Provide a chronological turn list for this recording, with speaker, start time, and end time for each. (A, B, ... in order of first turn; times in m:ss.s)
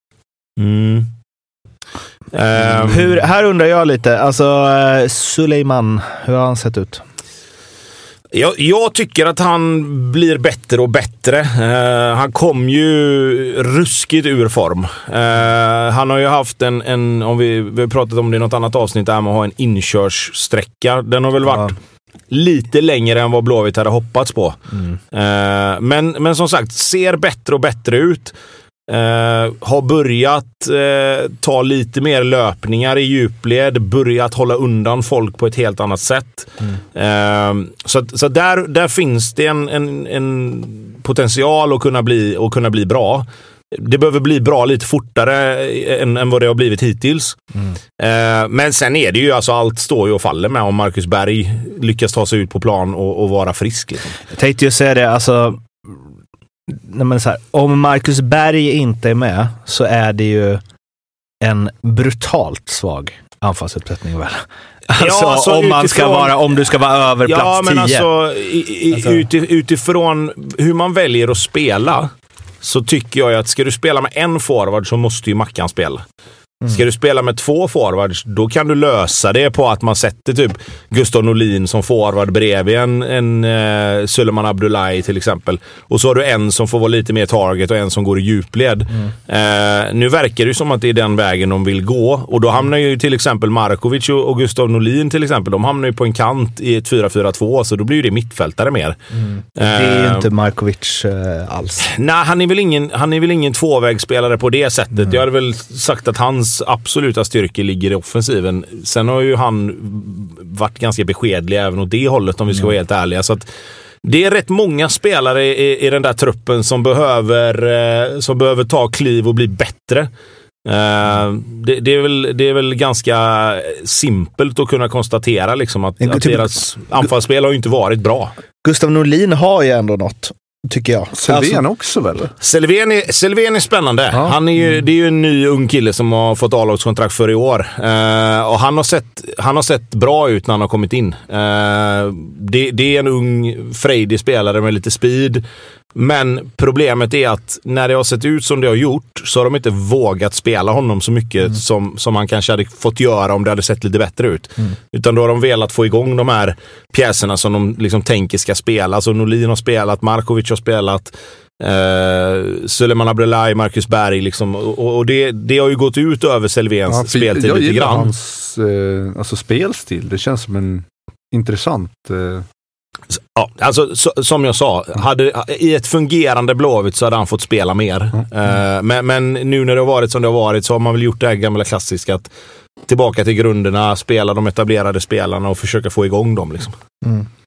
0:00.6-0:01.1 A
0:02.3-0:03.2 A
0:02.8-0:07.0 B
0:08.3-0:21.8 A
0:22.3-0:24.6 A
0:25.1-0:28.3 A
0:28.9-0:47.4 A
0:48.0-0:54.2 A
0:54.3-0:55.6 B
0:56.7-1:00.6 B
1:01.4-1:08.0 B
1:05.0-1:06.4 A
1:07.2-1:12.1 A
1:08.9-1:09.2 B
1:12.6-1:16.0 A
1:16.7-1:39.0 A
1:39.6-1:40.2 A
1:39.6-1:41.9 B
1:41.8-1:53.4 A
1:54.0-2:00.1 A
2:00.6-2:08.3 A
2:06.0-2:06.4 B
2:08.6-2:11.6 B
2:11.1-2:12.3 C
2:12.4-2:25.4 A
2:14.1-2:14.4 C
2:25.9-2:48.1 A
2:46.9-2:52.4 C
2:53.2-3:02.3 A
3:02.9-3:06.7 A
3:07.0-3:07.3 B